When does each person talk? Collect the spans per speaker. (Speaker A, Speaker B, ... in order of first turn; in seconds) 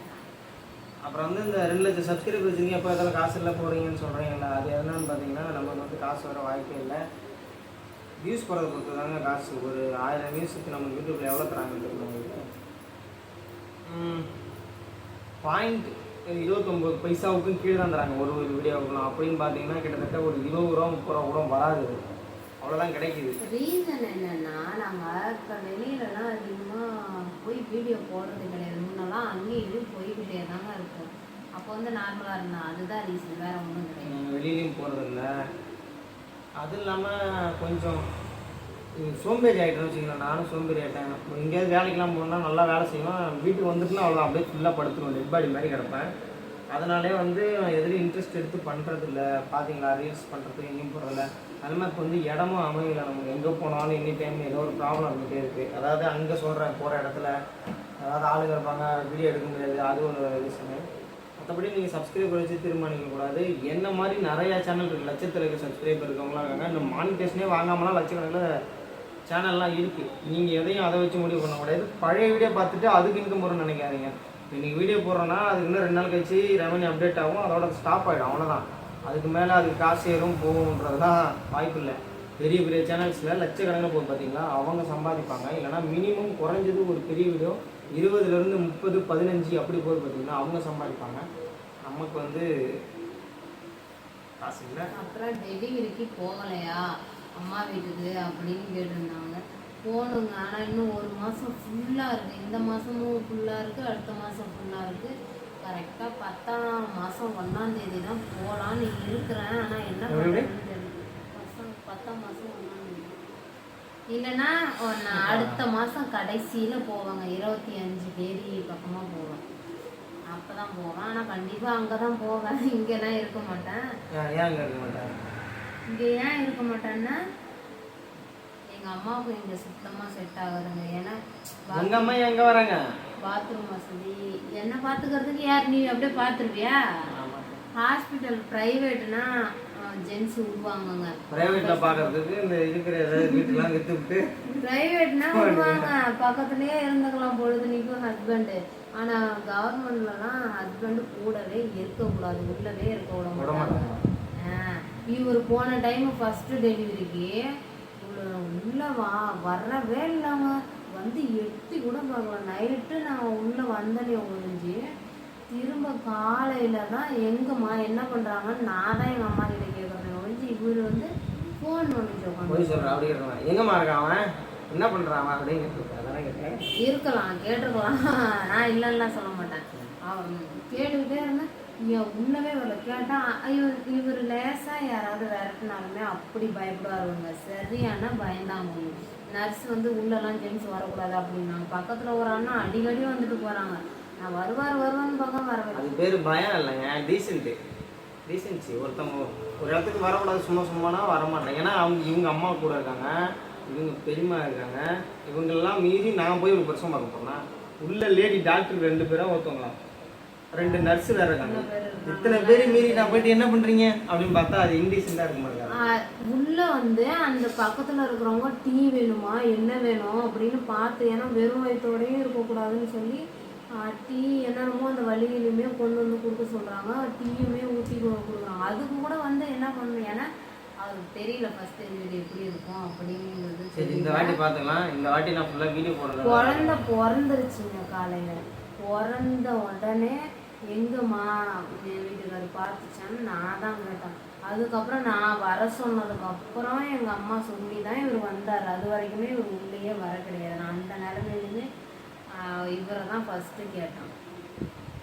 Speaker A: 1.0-7.0, 8.2-12.4, 13.9-14.3, 15.4-21.9, 22.6-23.4, 34.1-35.3, 36.6-38.0, 39.0-46.1, 46.7-57.3, 58.0-60.8, 61.4-68.5, 69.3-91.2, 91.9-92.5, 94.4-94.9, 110.1-110.5, 115.1-115.6, 124.1-125.2, 131.7-132.8, 137.1-137.6, 141.3-144.3, 145.3-145.9, 153.4-154.0, 172.5-176.6, 195.7-197.6, 198.3-203.1, 203.7-209.8, 210.5-215.7, 233.7-236.8
Speaker B: 23.4-34.1, 94.9-96.8, 97.4-113.2, 114.1-119.4, 120.3-123.8, 125.9-127.2, 128.7-132.2, 133.2-136.8, 137.8-142.2, 143.2-143.7, 144.6-153.9, 154.4-157.4, 158.0-164.8, 165.5-173.0, 176.8-195.9, 210.6-213.3, 215.7-223.2, 223.8-230.3, 230.8-234.4, 236.2-240.2, 240.7-251.7, 252.3-254.1